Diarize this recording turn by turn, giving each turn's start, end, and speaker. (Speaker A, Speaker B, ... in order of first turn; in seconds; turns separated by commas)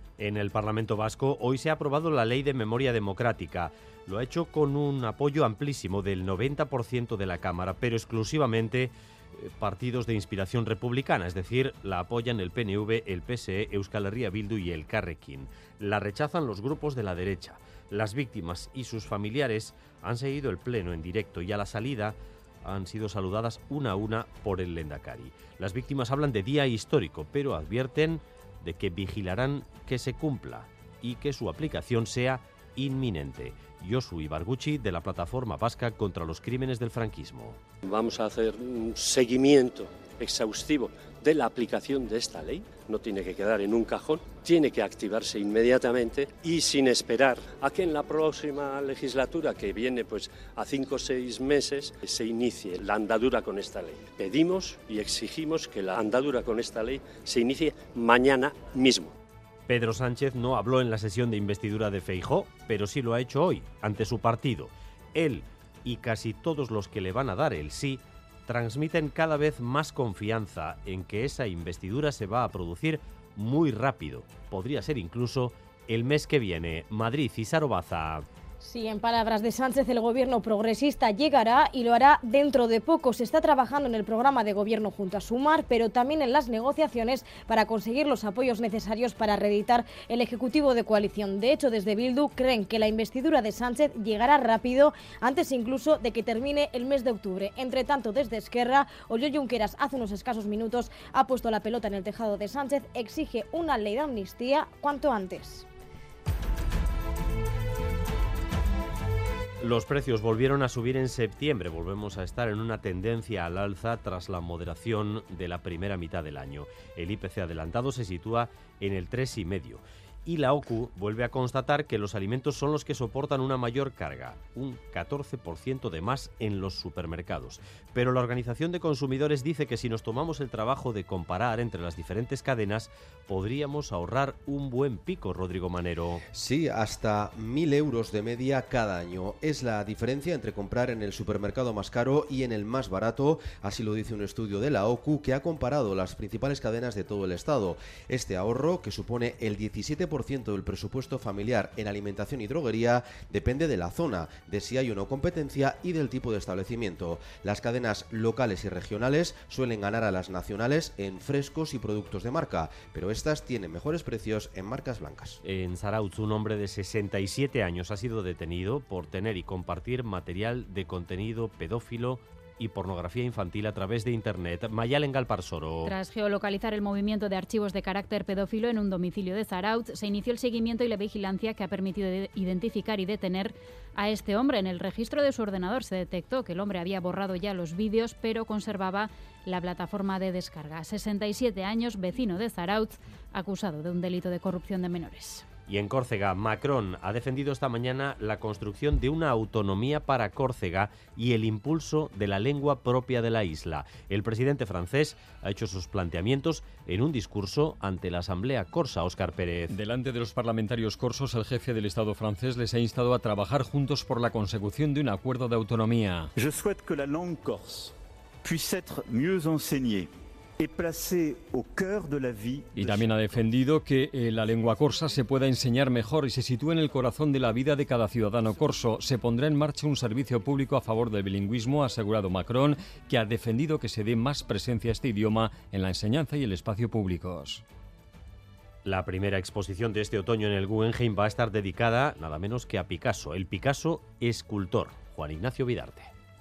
Speaker A: 0.2-37.6, Speaker B: 37.8-59.1, Speaker A: 59.7-78.2, Speaker C: 78.6-105.7, Speaker A: 109.6-136.2, Speaker D: 136.3-165.4, Speaker A: 165.4-175.9, Speaker E: 175.8-195.4, Speaker A: 195.7-209.8, Speaker F: 209.7-216.3, Speaker G: 216.4-217.9, Speaker G: 218.4-220.1, Speaker G: 220.6-223.1, Speaker F: 222.8-237.6, Speaker A: 238.8-246.1